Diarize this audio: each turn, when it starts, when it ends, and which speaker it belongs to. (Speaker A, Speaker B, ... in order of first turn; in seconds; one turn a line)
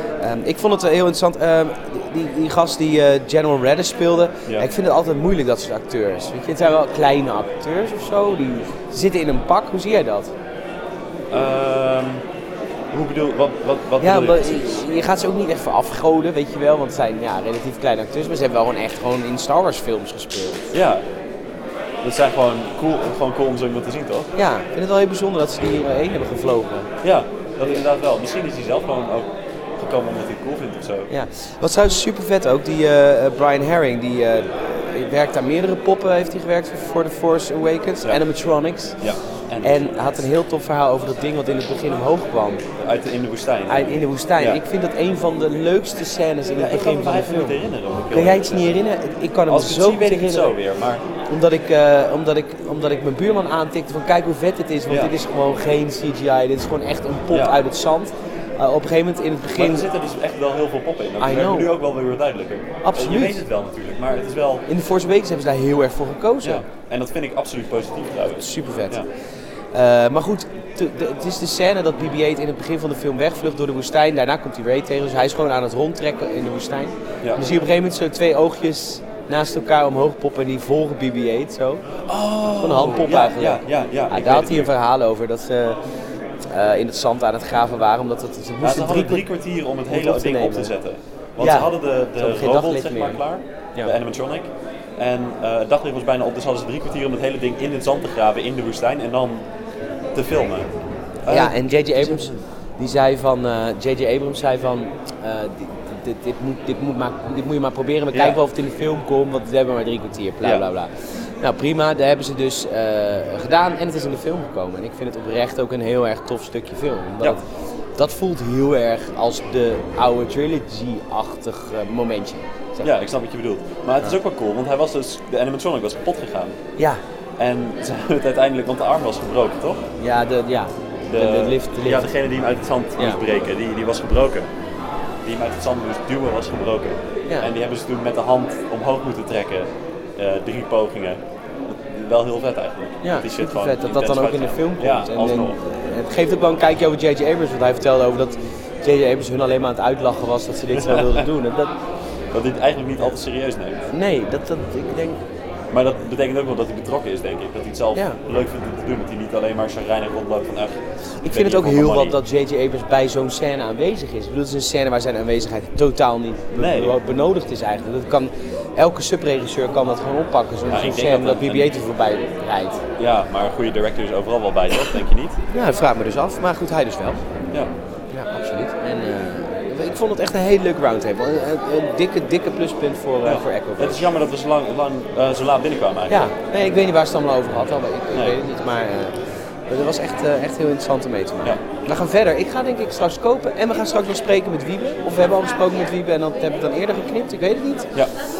Speaker A: 0.2-10.3
Speaker B: 11.3-12.2
Speaker B: 12.9-14.8
Speaker A: 14.0-20.7
Speaker B: 20.7-21.1
Speaker B: 22.0-24.3
Speaker A: 24.4-26.9
Speaker B: 27.0-31.1
Speaker A: 31.1-39.0
Speaker B: 39.0-40.1
Speaker A: 39.6-42.6
Speaker B: 42.8-44.6
Speaker A: 43.7-50.6
Speaker B: 46.6-48.8
Speaker B: 49.5-51.0
Speaker A: 51.3-59.9
Speaker B: 54.9-55.1
Speaker B: 57.3-57.7
Speaker B: 59.5-64.7
Speaker A: 61.2-61.7
Speaker A: 62.8-63.4
Speaker A: 64.7-66.7
Speaker B: 66.4-69.1
Speaker A: 68.4-69.0
Speaker A: 69.7-81.9
Speaker B: 82.1-84.7
Speaker A: 82.5-85.8
Speaker A: 86.5-89.3
Speaker B: 88.6-99.5
Speaker A: 89.9-90.8
Speaker A: 91.4-93.2
Speaker B: 100.1-100.7
Speaker B: 101.2-102.5
Speaker A: 101.3-122.9
Speaker B: 108.1-108.4
Speaker B: 110.4-110.7
Speaker B: 122.8-126.6
Speaker B: 127.4-129.9
Speaker A: 130.0-132.1
Speaker B: 131.1-134.5
Speaker A: 133.0-133.2
Speaker B: 135.2-145.6
Speaker A: 143.0-151.7
Speaker B: 150.7-151.3
Speaker B: 152.3-153.9
Speaker A: 153.9-155.2
Speaker B: 155.7-162.2
Speaker A: 157.9-158.2
Speaker A: 161.2-172.8
Speaker B: 166.6-167.0
Speaker B: 170.7-171.8
Speaker B: 173.0-175.4
Speaker A: 175.5-177.3
Speaker A: 178.1-184.1
Speaker B: 183.2-186.3
Speaker A: 186.1-197.9
Speaker B: 188.1-188.4